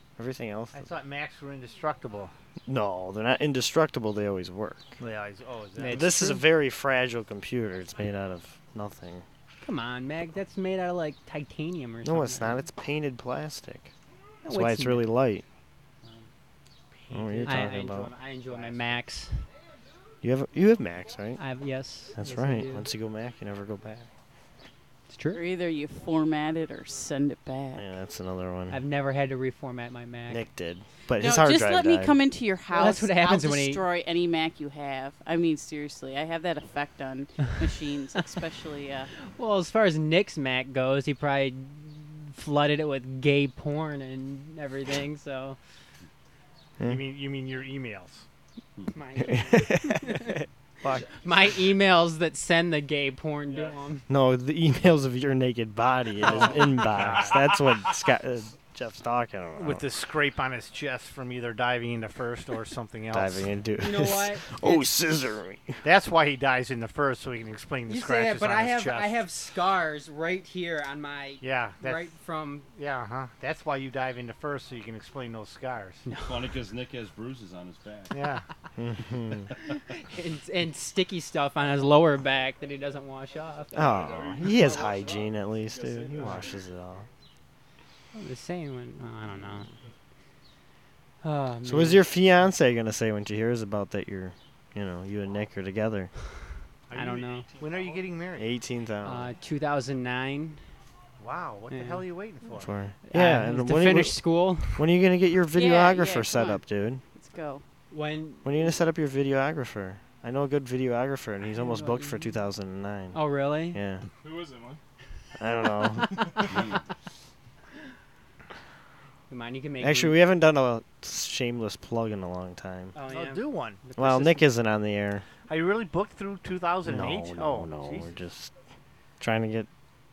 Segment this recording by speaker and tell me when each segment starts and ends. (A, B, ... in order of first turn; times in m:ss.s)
0:00.2-0:00.9 A
0:00.7-0:02.3 B
0:02.7-0:05.0 A
0:05.0-0:06.3 B
0:05.8-0:06.4 C
0:05.8-0:09.2 A
0:09.6-0:12.6 C
0:12.0-0:13.9 A
0:14.4-0:15.1 C
0:14.5-0:15.4 A
0:17.0-0:19.0 B
0:17.1-0:18.1 A
0:17.4-0:19.4 C
0:20.2-0:21.4 A
0:21.4-0:22.9 C
0:22.2-0:24.1 A
0:25.1-0:25.4 C
0:25.3-0:27.9 D
0:27.8-0:28.8 A
0:28.7-0:30.5 C
0:30.3-0:32.2 A
0:31.2-0:39.1 D
0:32.7-0:33.8 C
0:39.3-0:45.6 C
0:46.8-0:48.2 B
0:48.9-0:50.4 C
0:49.2-0:51.5 A
0:51.0-0:54.1 C
0:54.1-0:59.9 A
0:56.2-0:57.6 B
0:59.6-1:03.5 B
1:03.1-1:05.8 A
1:03.8-1:04.5 C
1:05.8-1:09.2 B
1:07.9-1:12.7 C
1:11.4-1:12.2 B
1:12.7-1:16.1 B
1:16.1-1:16.5 C
1:16.2-1:18.2 E
1:18.1-1:18.4 B
1:18.8-1:19.5 A
1:19.9-1:23.8 C
1:23.7-1:27.1 A
1:23.8-1:26.5 F
1:28.1-1:29.7 C
1:31.2-1:32.0 C
1:31.6-1:36.1 A
1:36.9-1:38.5 B
1:36.9-1:37.5 C
1:38.4-1:39.3 A
1:39.0-1:40.6 C
1:41.2-1:42.7 B
1:41.7-1:42.0 C
1:42.6-1:47.0 A
1:43.1-1:44.9 C
1:45.5-1:46.6 D
1:47.2-1:47.6 D
1:47.9-1:48.7 C
1:48.4-1:54.0 A
1:51.6-1:52.1 C
1:53.1-1:53.8 C
1:54.2-1:54.8 F
1:55.4-1:56.6 A
1:56.4-1:56.8 E
1:59.3-2:00.2 C
1:59.8-2:03.0 A
2:02.9-2:04.4 C
2:03.1-2:03.8 B
2:04.0-2:05.3 A
2:05.5-2:08.1 B
2:06.8-2:08.5 A
2:09.2-2:09.7 A